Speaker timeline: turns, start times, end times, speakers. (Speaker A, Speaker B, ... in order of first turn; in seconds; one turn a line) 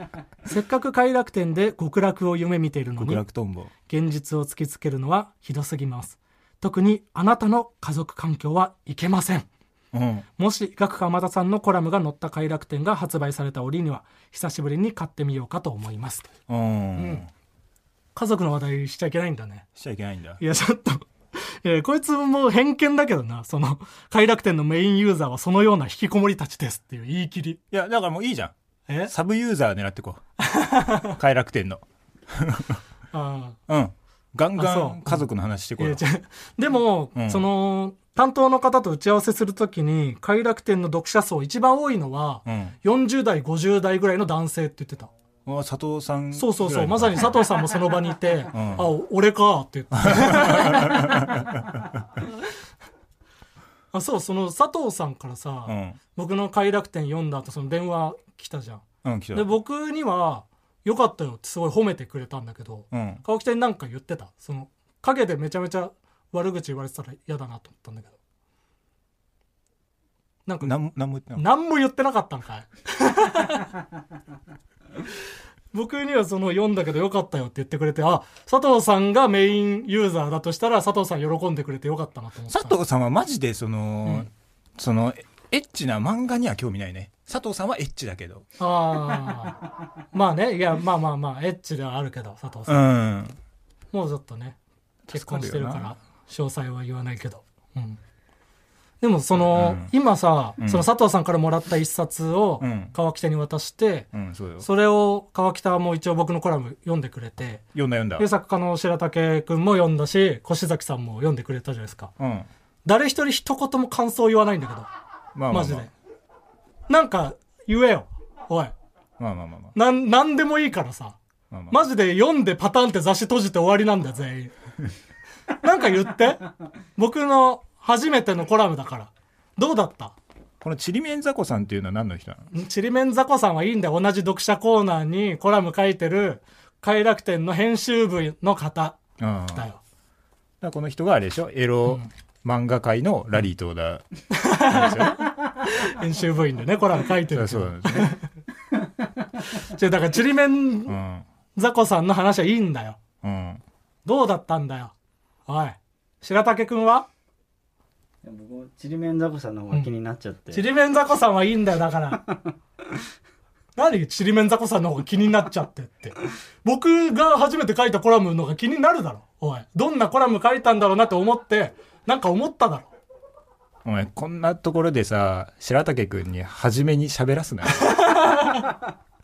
Speaker A: 0.5-3.2
Speaker B: 3.0-3.7
Speaker A: 3.9-9.5
Speaker B: 9.9-10.3
Speaker A: 10.4-16.3
Speaker B: 16.5-17.3
Speaker A: 17.0-17.2
Speaker A: 18.1-19.7
Speaker B: 19.8-20.4
Speaker A: 20.4-27.6
Speaker B: 27.7-28.5
Speaker B: 29.1-30.2
Speaker A: 30.4-31.2
Speaker B: 31.0-32.8
Speaker A: 33.1-33.6
Speaker B: 33.7-36.0
Speaker A: 34.6-35.3
Speaker A: 35.8-45.1
Speaker B: 37.2-37.5
Speaker B: 42.5-42.8
Speaker B: 45.5-47.4
Speaker A: 46.3-51.4
Speaker B: 48.5-48.9
Speaker B: 50.0-51.9
Speaker A: 53.9-68.2
Speaker B: 55.7-56.0
Speaker B: 59.0-59.5
Speaker B: 62.9-63.2
Speaker A: 70.5-70.8
Speaker B: 70.6-71.5
Speaker A: 71.4-73.7
Speaker A: 75.7-82.8
Speaker B: 82.5-88.5
Speaker A: 88.6-92.8
Speaker B: 92.7-93.4
Speaker A: 93.9-94.6
Speaker B: 95.1-95.9
Speaker A: 95.1-98.0
Speaker A: 99.0-104.1
Speaker B: 99.4-99.9
Speaker B: 100.6-100.9
Speaker B: 102.6-103.0
Speaker B: 104.1-104.7
Speaker A: 104.6-107.6
Speaker B: 107.7-108.3
Speaker A: 108.2-112.1
Speaker B: 112.2-112.5
Speaker A: 112.8-114.9
Speaker B: 115.3-115.9
Speaker A: 115.5-115.9
Speaker A: 116.9-118.7
Speaker B: 119.2-119.8
Speaker A: 119.8-121.2
Speaker B: 121.5-121.8
Speaker A: 121.7-124.5
Speaker A: 125.6-130.2
Speaker B: 130.6-132.5
Speaker A: 132.5-139.0
Speaker B: 139.2-139.7
Speaker A: 139.5-139.8
Speaker B: 140.6-145.2
Speaker A: 144.3-148.3
Speaker B: 147.3-148.2
Speaker A: 149.5-151.0
Speaker B: 150.9-151.2
Speaker A: 151.6-153.0
Speaker B: 153.2-153.6
Speaker A: 154.1-154.9
Speaker A: 155.5-157.1
Speaker C: 158.2-160.7
Speaker A: 160.5-162.3
Speaker A: 163.8-172.9
Speaker B: 173.8-177.9
Speaker A: 177.8-178.8